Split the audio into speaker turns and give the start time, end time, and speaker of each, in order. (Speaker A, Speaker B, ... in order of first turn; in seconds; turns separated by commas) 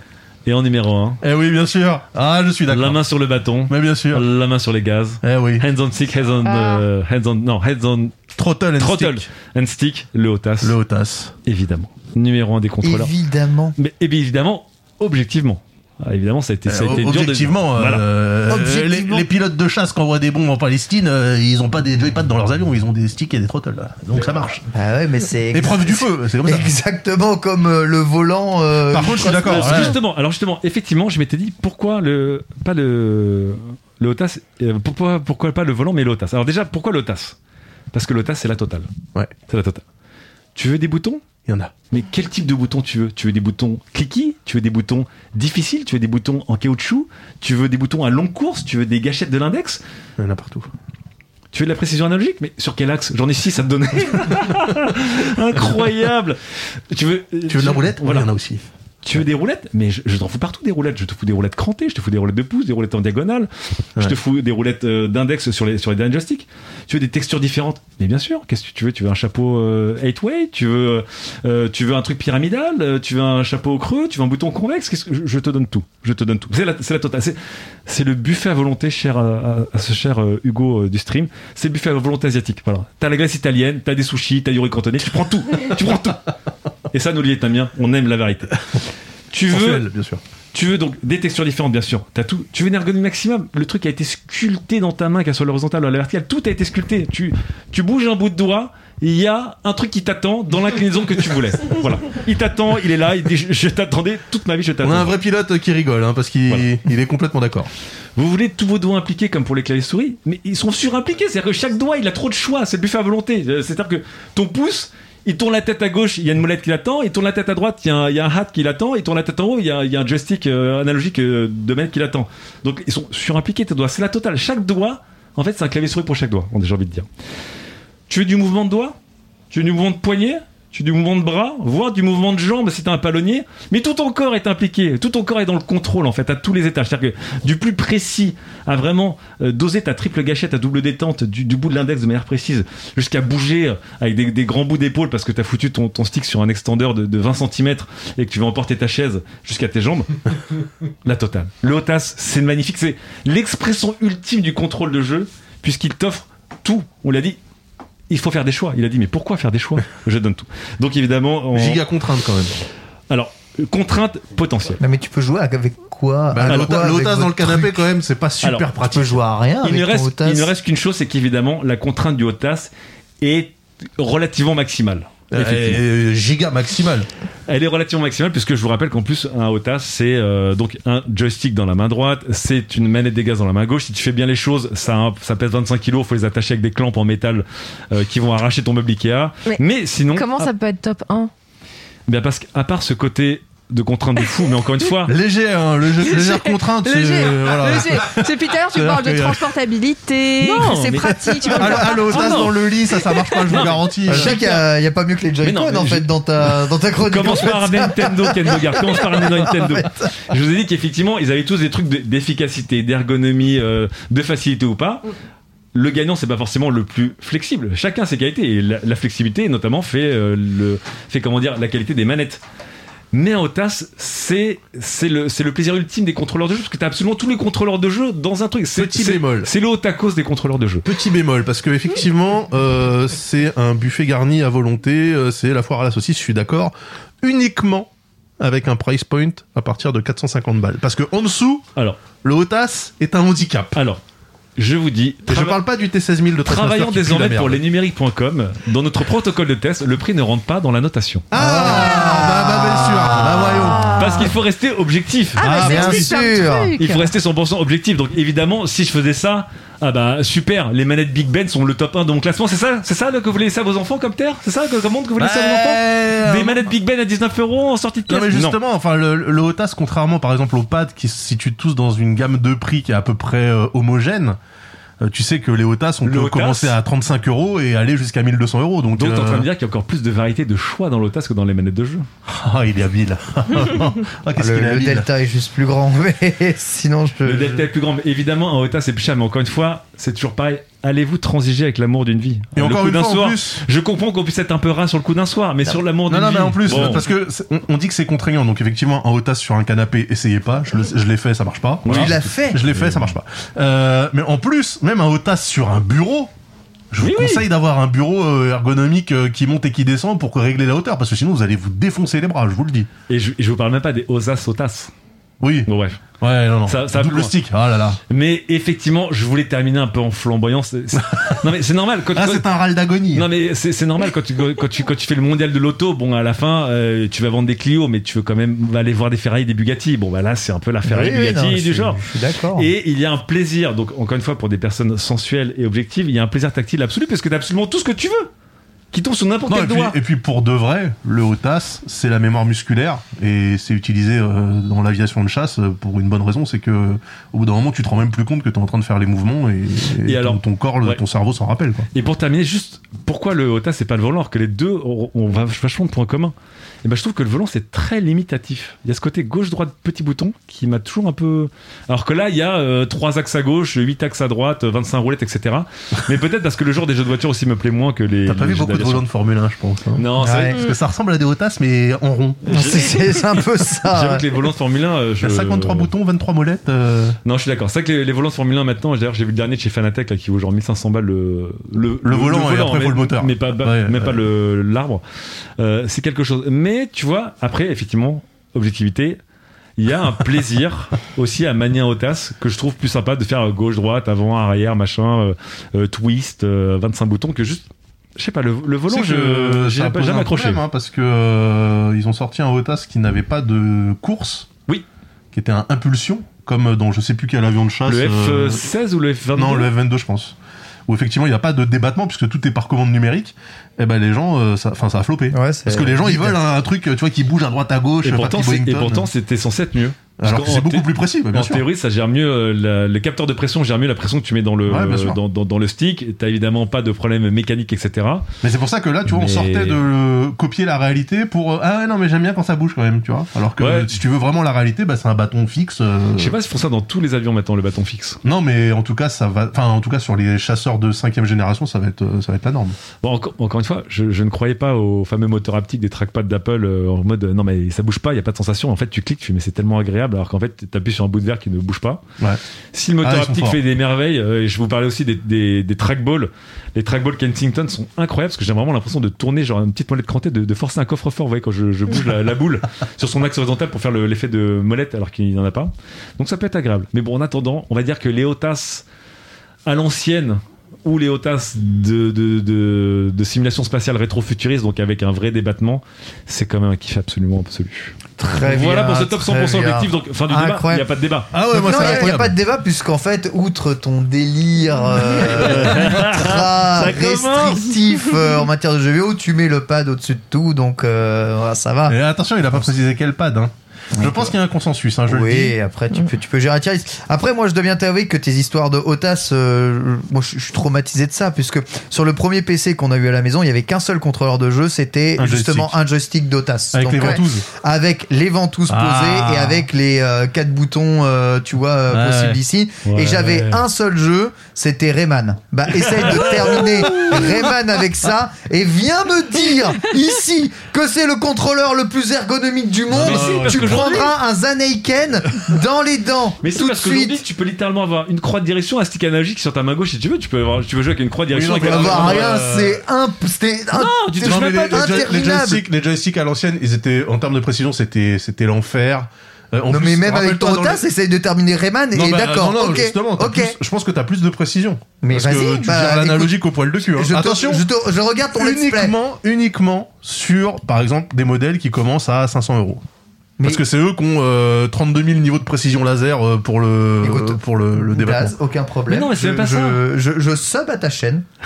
Speaker A: 0.5-1.2, Speaker B: 1.2-3.0, Speaker A: 2.7-8.2, Speaker B: 3.7-4.3, Speaker B: 5.2-5.7, Speaker C: 6.5-6.9, Speaker B: 8.4-9.3, Speaker A: 8.8-10.8, Speaker B: 10.6-11.3, Speaker A: 11.4-13.1, Speaker D: 12.8-13.8, Speaker A: 13.8-18.1, Speaker B: 16.7-24.6, Speaker D: 18.5-19.3, Speaker D: 24.7-30.0, Speaker B: 25.5-26.7, Speaker B: 28.9-30.0, Speaker A: 29.2-37.4, Speaker A: 37.9-38.9, Speaker A: 39.5-39.8, Speaker A: 40.5-41.2, Speaker B: 41.5-41.7, Speaker A: 41.9-49.8, Speaker B: 50.2-50.7, Speaker A: 51.5-56.4, Speaker A: 56.9-58.3, Speaker B: 57.5-58.6, Speaker A: 59.0-86.3, Speaker A: 86.9-88.6, Speaker A: 89.3-89.9, Speaker B: 89.5-90.2, Speaker A: 90.5-105.2, Speaker B: 104.8-107.7, Speaker A: 108.2-127.1, Speaker A: 128.1-129.0, Speaker A: 129.5-150.2, Speaker A: 151.0-157.4, Speaker A: 158.1-161.8, Speaker B: 161.5-162.6, Speaker A: 163.1-164.8, Speaker D: 164.8-167.8, Speaker B: 166.3-169.2, Speaker A: 168.4-168.7, Speaker D: 168.8-170.5, Speaker A: 169.6-175.8, Speaker B: 175.3-177.1, Speaker A: 177.5-190.5, Speaker C: 190.1-191.3, Speaker A: 192.1-195.2, Speaker B: 195.1-199.6, Speaker C: 196.0-202.4, Speaker A: 200.4-202.6, Speaker B: 201.5-204.4, Speaker C: 203.1-203.6, Speaker A: 203.5-204.6, Speaker D: 204.1-210.1, Speaker A: 205.4-215.1, Speaker A: 215.7-222.4, Speaker A: 223.1-230.9, Speaker B: 228.7-229.5, Speaker B: 230.8-241.7, Speaker B: 242.2-243.8, Speaker A: 243.8-244.0, Speaker A: 244.6-245.6, Speaker B: 245.3-247.6, Speaker A: 246.5-251.3, Speaker B: 251.3-254.2, Speaker D: 251.3-254.2, Speaker A: 254.0-255.4, Speaker C: 255.4-257.1, Speaker B: 255.4-256.2, Speaker D: 255.4-256.7, Speaker A: 256.8-268.6, Speaker B: 265.2-266.7, Speaker B: 268.1-274.4, Speaker B: 275.0-279.5, Speaker A: 276.0-276.8, Speaker A: 279.0-282.1, Speaker B: 282.3-285.1, Speaker D: 284.4-287.7, Speaker A: 287.2-297.1, Speaker B: 292.6-293.6, Speaker B: 296.1-306.3, Speaker A: 301.9-303.1, Speaker D: 301.9-302.6, Speaker B: 306.9-312.9, Speaker A: 307.0-307.5, Speaker A: 313.1-314.9, Speaker B: 315.4-315.7, Speaker A: 315.7-316.0, Speaker B: 316.2-318.0, Speaker A: 316.7-317.4, Speaker A: 318.1-322.5, Speaker B: 320.9-321.5, Speaker B: 322.1-323.3, Speaker A: 323.1-332.0, Speaker D: 330.8-332.7, Speaker A: 332.6-338.3, Speaker A: 338.9-340.0, Speaker B: 339.5-351.9, Speaker A: 350.1-351.0, Speaker A: 351.9-369.1, Speaker B: 368.2-372.5, Speaker A: 370.0-370.6, Speaker D: 370.2-370.6, Speaker A: 372.4-375.9, Speaker D: 372.5-374.3, Speaker B: 375.2-377.2, Speaker A: 377.2-385.0, Speaker B: 382.0-384.2, Speaker A: 385.6-389.2, Speaker A: 389.8-400.6, Speaker B: 398.9-404.5, Speaker B: 405.3-408.7, Speaker A: 407.9-409.7, Speaker B: 409.4-419.1, Speaker D: 415.3-416.4, Speaker A: 418.0-428.3, Speaker B: 420.2-421.6, Speaker B: 424.7-425.2, Speaker B: 428.4-436.4, Speaker A: 429.1-429.8, Speaker A: 433.6-434.0, Speaker A: 436.2-438.2, Speaker B: 438.2-442.8, Speaker A: 443.0-452.0, Speaker A: 452.7-468.9, Speaker B: 453.0-453.6, Speaker A: 469.7-482.1, Speaker D: 478.2-480.9, Speaker B: 481.3-482.4, Speaker D: 481.5-492.0, Speaker A: 485.1-487.8, Speaker B: 485.4-485.8, Speaker B: 491.9-495.6, Speaker D: 494.0-494.3, Speaker D: 495.1-527.2, Speaker B: 505.2-505.8, Speaker B: 506.7-507.5, Speaker B: 508.7-509.7, Speaker B: 511.9-512.4, Speaker A: 512.9-513.6, Speaker A: 516.0-516.7, Speaker B: 516.1-517.5, Speaker B: 522.9-524.1, Speaker A: 522.9-524.1, Speaker A: 526.4-532.5, Speaker B: 531.3-532.8, Speaker D: 531.6-535.6, Speaker A: 533.7-535.1, Speaker B: 534.2-540.8, Speaker D: 539.7-543.6, Speaker B: 541.9-547.7, Speaker D: 545.0-548.9, Speaker B: 548.3-552.8, Speaker B: 553.4-558.4, Speaker D: 557.0-561.2, Speaker A: 558.9-559.8